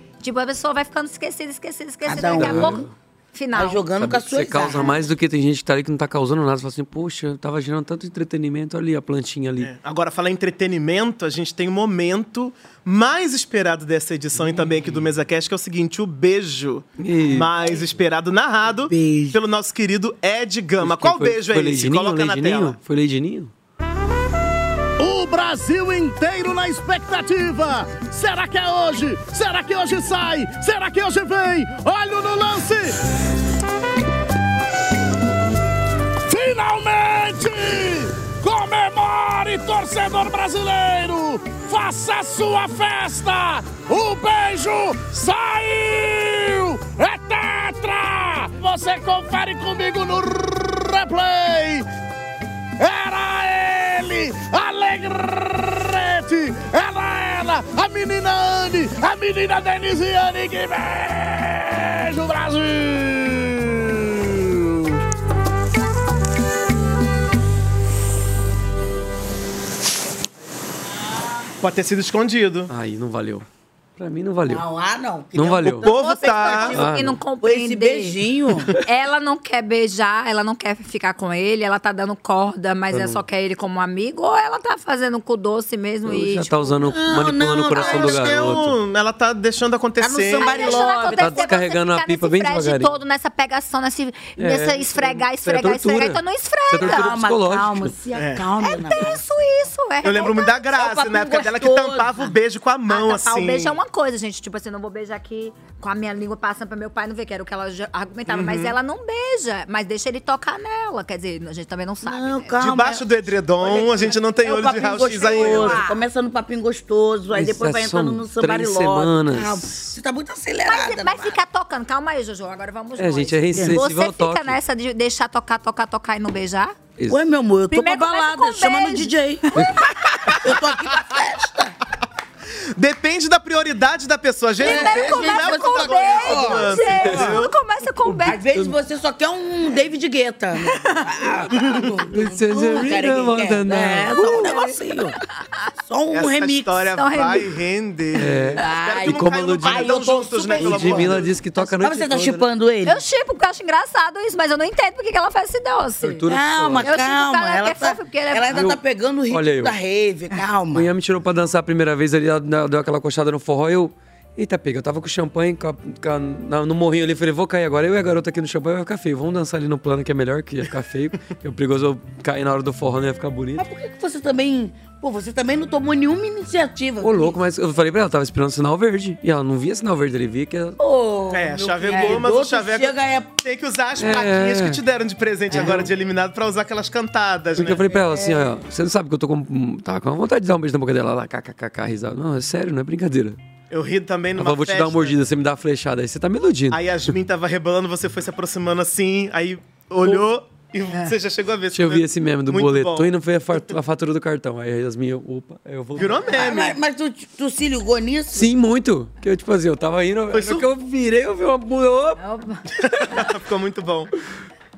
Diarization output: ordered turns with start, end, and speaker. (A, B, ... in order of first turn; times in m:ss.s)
0:00.2-0:03.8 A
0:02.0-0:02.9 B
0:02.2-0:02.9 C
0:03.5-0:05.0 B
0:04.0-0:09.7 C
0:09.6-0:22.8 D
0:17.0-0:17.5 C
0:18.9-0:19.4 B
0:20.8-0:23.5 C
0:25.0-0:33.0 E
0:36.3-0:51.8 E
0:52.8-1:04.8 E
1:11.6-1:12.7 D
1:12.7-1:14.7 C
1:14.4-1:16.9 B
1:15.3-1:15.9 C
1:15.7-1:16.8 D
1:15.8-1:18.2 A
1:16.7-1:17.2 C
1:17.4-1:18.7 B
1:18.8-1:26.8 A
1:22.9-1:23.2 C
1:26.0-1:28.8 C
1:26.8-1:28.5 B
1:27.8-1:30.7 D
1:30.0-1:31.5 B
1:30.3-1:37.1 A
1:30.7-1:32.9 C
1:34.4-1:37.9 C
1:36.8-1:39.2 B
1:38.1-1:38.5 D
1:38.6-1:40.7 A
1:40.0-1:43.8 D
1:40.7-1:42.3 B
1:42.9-1:52.6 A
1:48.3-1:48.7 D
1:52.0-1:53.1 B
1:52.6-1:55.8 D
1:53.6-2:01.4 B
1:55.0-1:56.0 A
1:57.3-1:59.8 C
2:00.6-2:06.8 A
2:03.0-2:04.6 C
2:03.5-2:03.8 B
2:07.0-2:07.2 C
2:07.1-2:09.6 B
2:07.7-2:10.3 A
2:10.2-2:11.8 B
2:12.8-2:17.5 D
2:14.6-2:18.4 A
2:14.6-2:17.1 B
2:18.0-2:18.8 C
2:18.2-2:25.2 B
2:22.1-2:24.6 C
2:24.4-2:24.6 A
2:25.8-2:26.9 B
2:26.1-2:31.3 D
2:26.9-2:27.5 A
2:28.1-2:30.0 C
2:28.6-2:33.0 B
2:30.5-2:32.5 C
2:32.8-2:36.2 A
2:36.0-2:36.9 C
2:36.2-2:40.9 B
2:36.8-2:38.6 A
2:38.5-2:39.8 C
2:40.7-2:53.6 C
2:53.6-2:57.4 B
2:57.0-3:00.8 C
3:00.8-3:03.3 B
3:01.3-3:07.8 D
3:01.9-3:02.2 A
3:04.0-3:04.8 C
3:05.5-3:05.8 C
3:07.6-3:13.4 C
3:08.1-3:08.4 B
3:13.7-3:15.2 D
3:14.4-3:17.1 C
3:16.7-3:23.1 D
3:21.7-3:26.4 C
3:26.0-3:26.8 D
3:26.3-3:28.5 B
3:28.3-3:32.2 C
3:30.3-3:30.6 D
3:32.2-3:32.6 A
3:32.8-3:34.1 D